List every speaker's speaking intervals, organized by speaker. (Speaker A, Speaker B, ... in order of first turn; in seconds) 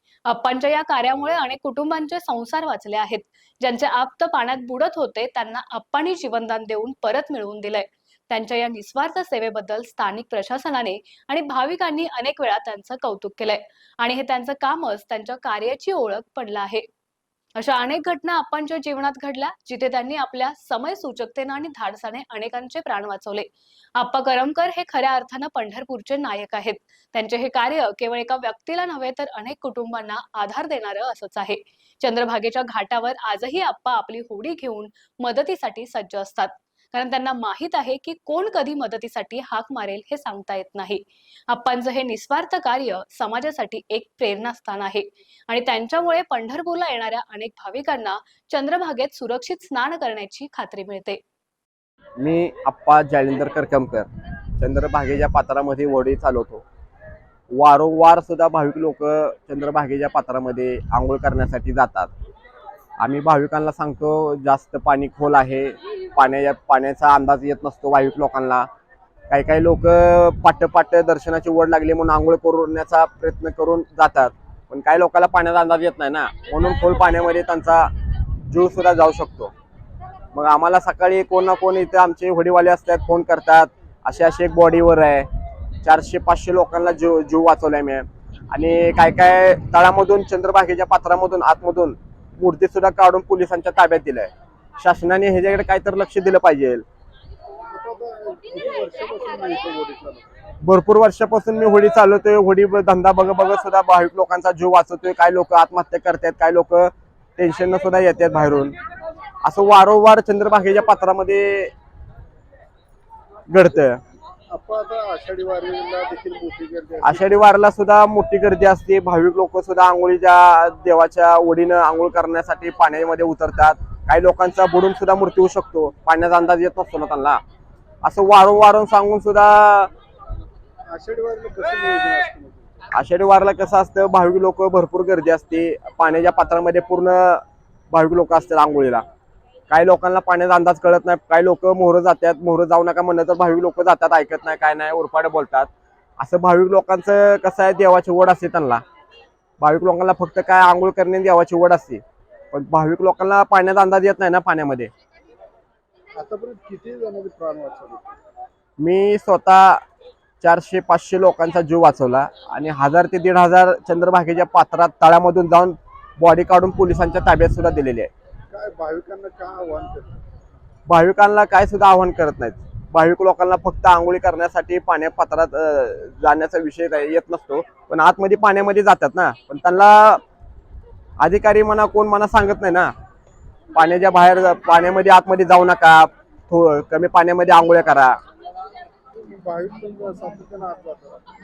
Speaker A: 0.2-16.9, 17.6-51.2
Speaker B: 52.2-54.1, 54.6-56.6, 57.5-62.1, 63.0-68.7, 69.3-77.9, 78.5-79.5, 80.3-85.3, 85.8-94.3, 94.8-96.8, 100.6-108.8, 109.4-111.7, 113.5-114.0, 117.0-127.4, 128.0-129.9, 132.9-139.0, 139.7-148.8, 149.6-154.9, 158.8-159.8, 160.4-168.1, 170.9-180.2, 181.2-182.9, 183.7-188.2
Speaker C: 97.7-100.2, 114.5-117.4, 130.9-132.8, 156.2-158.0, 168.5-170.2, 189.1-191.2